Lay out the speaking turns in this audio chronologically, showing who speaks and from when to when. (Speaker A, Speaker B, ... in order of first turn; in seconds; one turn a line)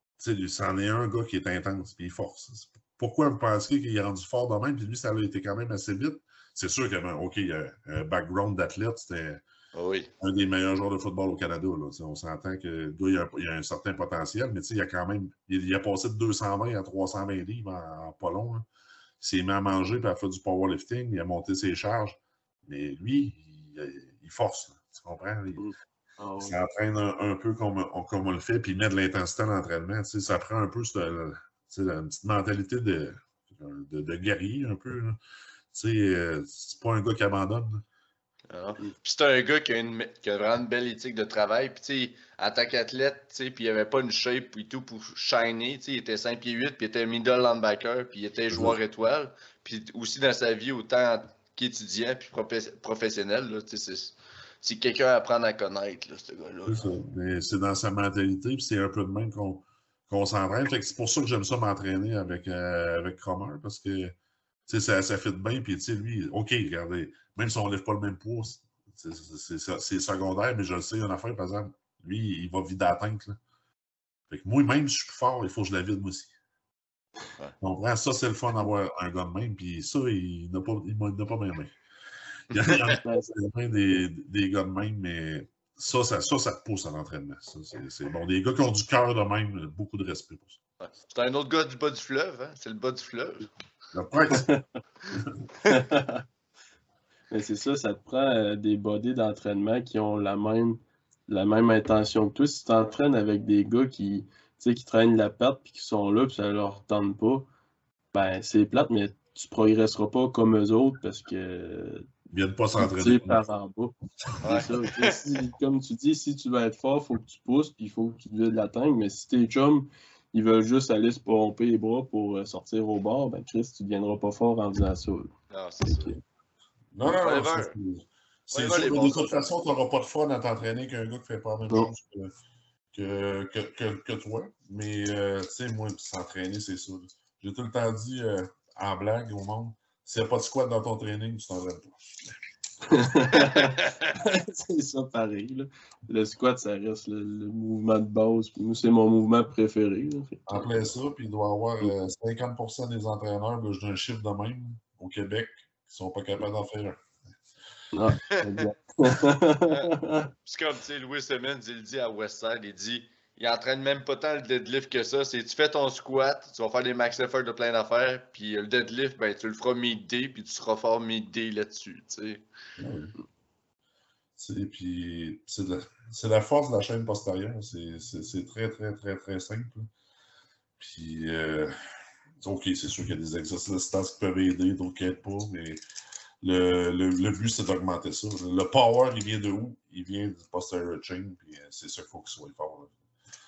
Speaker A: 0.2-9.4
Speaker B: 9.7-10.1
Speaker A: 10.2-18.7
Speaker A: 19.2-25.6
Speaker C: 25.6-26.6
Speaker A: 26.4-35.2
Speaker A: 35.7-37.8
Speaker B: 38.5-56.8
Speaker A: 48.5-48.8
Speaker A: 56.7-64.2
Speaker A: 64.7-73.4
Speaker A: 74.3-76.3
Speaker A: 77.6-81.8
Speaker A: 82.5-90.6
Speaker B: 82.5-83.0
Speaker C: 82.9-83.3
Speaker B: 90.8-93.5
Speaker A: 93.9-94.5
Speaker C: 94.3-94.6
Speaker C: 95.7-96.2
Speaker C: 97.3-107.5
Speaker C: 108.1-112.1
Speaker A: 112.3-113.4
Speaker C: 112.8-125.3
Speaker B: 114.4-115.2
Speaker B: 125.5-126.2
Speaker C: 125.8-126.2
Speaker A: 126.9-132.3
Speaker B: 127.0-127.7
Speaker B: 128.5-129.5
Speaker A: 132.9-141.9
Speaker C: 142.9-150.9
Speaker A: 150.5-157.0
Speaker C: 157.9-160.3
Speaker B: 160.4-172.4
Speaker A: 172.8-173.1
Speaker A: 174.4-179.9
Speaker A: 180.8-181.8
Speaker A: 182.4-185.8
Speaker A: 186.4-192.9